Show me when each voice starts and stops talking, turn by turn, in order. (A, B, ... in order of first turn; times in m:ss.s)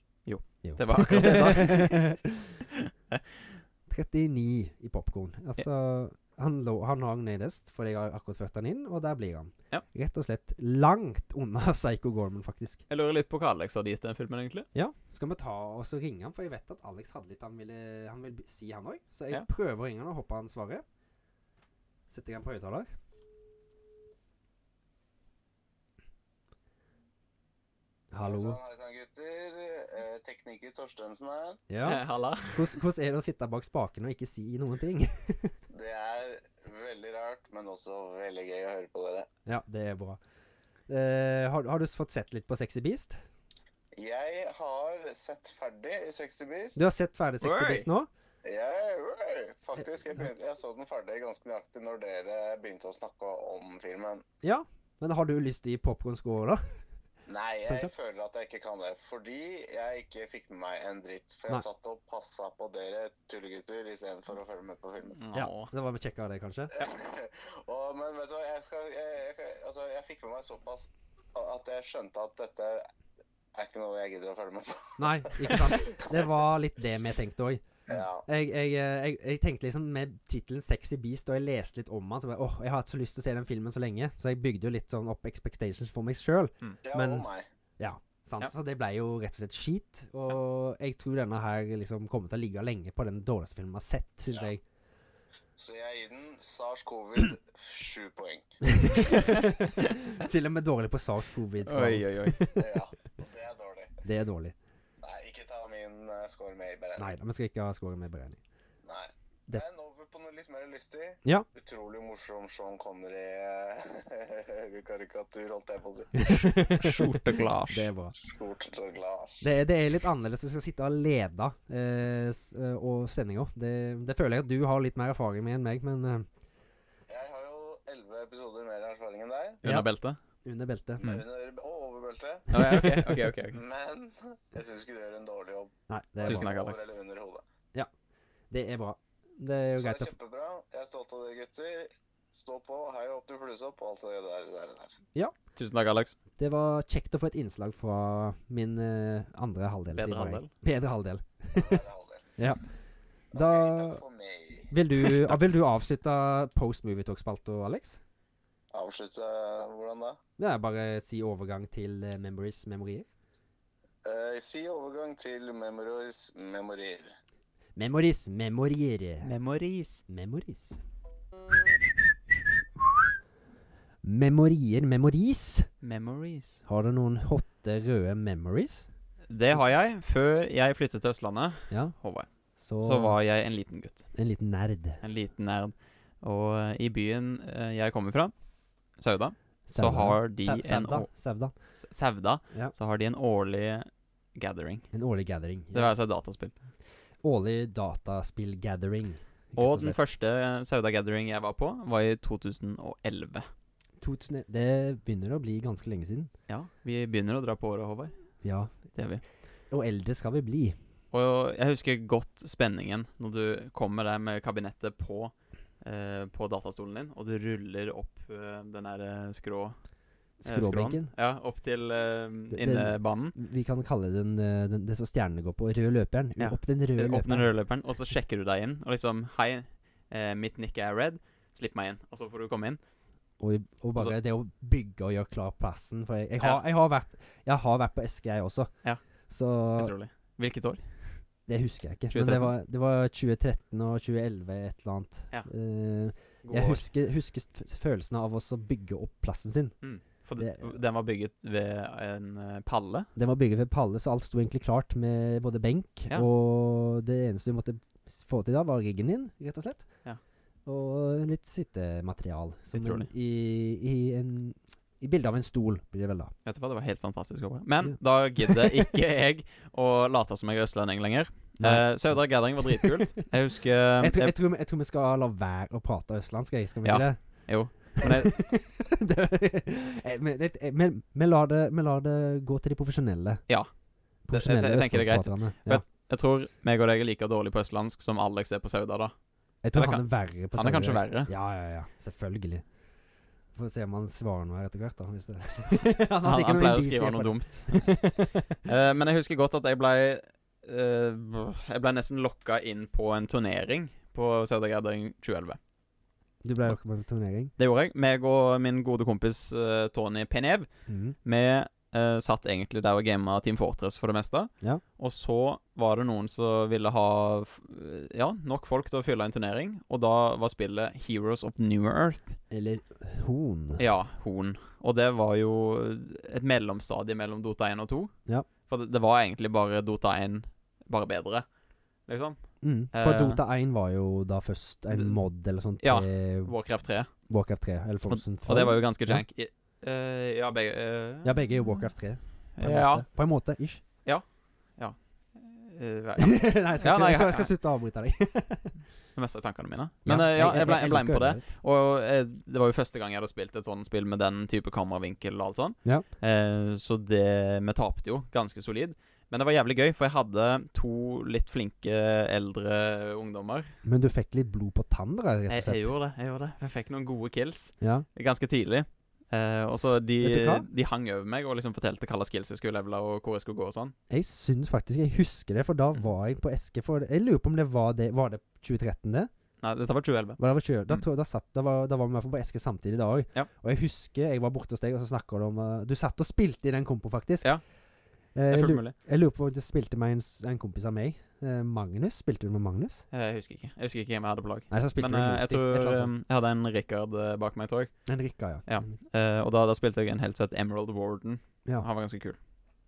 0:00.3-0:02.2 A
0:00.6-0:02.6 B
0:02.7-0:03.6 A
0:03.9-0:12.8 B
0:12.9-0:14.7 A
0:14.7-0:20.8 B
0:22.1-0:22.9 B
0:28.1-0:28.6 B
0:28.2-0:31.6 C
0:31.7-0:35.6 B
0:31.8-0:32.8 A
0:35.7-0:39.3 C
0:39.5-0:40.2 B
0:40.9-0:43.2 B
0:44.0-0:46.8 C
0:46.8-0:48.1 B
0:47.4-0:47.9 A
0:48.4-0:54.2 C
0:54.4-0:56.6 B
0:57.3-1:05.2 C
0:57.7-0:57.9 B
1:05.2-1:05.7 A
1:05.3-1:06.7 B
1:06.8-1:12.9 C
1:13.5-1:16.4 C
1:15.0-1:17.6 B
1:17.9-1:18.2 C
1:18.2-1:27.3 B
1:26.8-1:27.5 C
1:27.8-1:34.6 B
1:35.6-1:39.2 C
1:38.6-1:42.8 B
1:39.0-1:39.9 A
1:41.7-1:42.5 A
1:42.6-1:43.9 C
1:44.0-1:44.6 B
1:45.0-1:47.1 C
1:47.0-1:48.4 B
1:48.8-1:56.2 C
1:56.1-1:58.2 B
1:56.7-1:57.9 A
1:58.2-1:59.4 C
1:59.4-2:06.3 B
2:07.1-2:09.6 C
2:09.6-2:10.2 A
2:09.6-2:09.9 B
2:10.4-2:11.1 B
2:11.0-2:12.5 C
2:12.5-2:13.3 B
2:12.5-2:13.6 A
2:13.5-2:17.4 C
2:15.9-2:16.5 B
2:16.2-2:16.9 A
2:18.5-2:20.1 B
2:19.8-2:24.9 C
2:25.6-2:26.2 A
2:26.4-2:31.8 B
2:29.9-2:30.5 A
2:31.5-2:32.3 C
2:32.4-2:32.6 B
2:33.3-2:34.7 C
2:33.3-2:34.0 B
2:34.7-2:38.0 B
2:35.0-2:35.4 A
2:38.7-2:40.2 C
2:40.4-2:43.1 B
2:44.0-2:47.2 C
2:47.8-2:49.3 B
2:49.2-2:50.0 A
2:50.1-2:50.8 B
2:54.0-2:55.7 B
2:55.8-2:56.6 A
2:56.7-2:58.9 B
2:59.3-3:02.3 A
3:02.6-3:03.2 B
3:02.8-3:04.1 A
3:04.1-3:05.0 B
3:05.0-3:08.3 A
3:09.0-3:11.1 A
3:09.7-3:11.5 B
3:11.8-3:14.9 A
3:14.9-3:15.9 B
3:15.7-3:16.5 A
3:17.2-3:20.0 B
3:19.6-3:23.5 A
3:24.0-3:26.3 B
3:26.5-3:28.2 A
3:28.4-3:28.8 B
3:29.0-3:29.2 A
3:29.7-3:30.8 B
3:31.1-3:39.8 A
3:40.4-3:41.1 B
3:40.4-3:43.4 A
3:42.5-3:47.5 B
3:46.4-3:52.8 A
3:53.4-3:58.7 B
3:59.3-3:59.9 B
3:59.8-4:01.2 A
4:01.5-4:09.8 B
4:02.1-4:02.5 A
4:06.4-4:06.8 A
4:09.8-4:13.1 A
4:10.4-4:10.7 B
4:13.2-4:19.9 B
4:20.7-4:26.3 B
4:22.7-4:23.1 A
4:26.4-4:34.3 A
4:27.8-4:28.7 B
4:31.6-4:33.2 B
4:34.0-4:43.4 B
4:36.8-4:38.4 A
4:44.3-4:45.9 B
4:44.3-4:49.1 A
4:49.6-4:52.6 B
4:49.7-4:51.3 A
4:53.6-4:58.6 B
4:56.2-4:58.1 A
4:58.6-5:05.6 A
5:06.4-5:07.5 B
5:07.6-5:10.7 A
5:10.9-5:11.2 B
5:11.2-5:22.4 A
5:22.5-5:23.8 B
5:23.8-5:31.4 A
5:32.1-5:33.4 A
5:32.6-5:36.5 B
5:34.9-5:35.2 A
5:35.8-5:37.1 A
5:37.3-5:39.2 B
5:38.1-5:41.8 A
5:41.2-5:43.8 B
5:42.6-5:43.1 A
5:44.8-5:47.5 A
5:46.2-5:48.8 B
5:49.2-6:03.7 A
5:50.0-5:51.5 B
6:03.8-6:05.9 B
6:05.5-6:13.9 A
6:10.2-6:10.7 B
6:14.1-6:19.3 B
6:19.6-6:21.0 A
6:20.4-6:27.5 B
6:28.4-6:33.0 B
6:28.5-6:29.0 A
6:33.1-6:37.9 A
6:34.7-6:36.1 B
6:38.1-6:39.0 B
6:38.7-6:42.4 A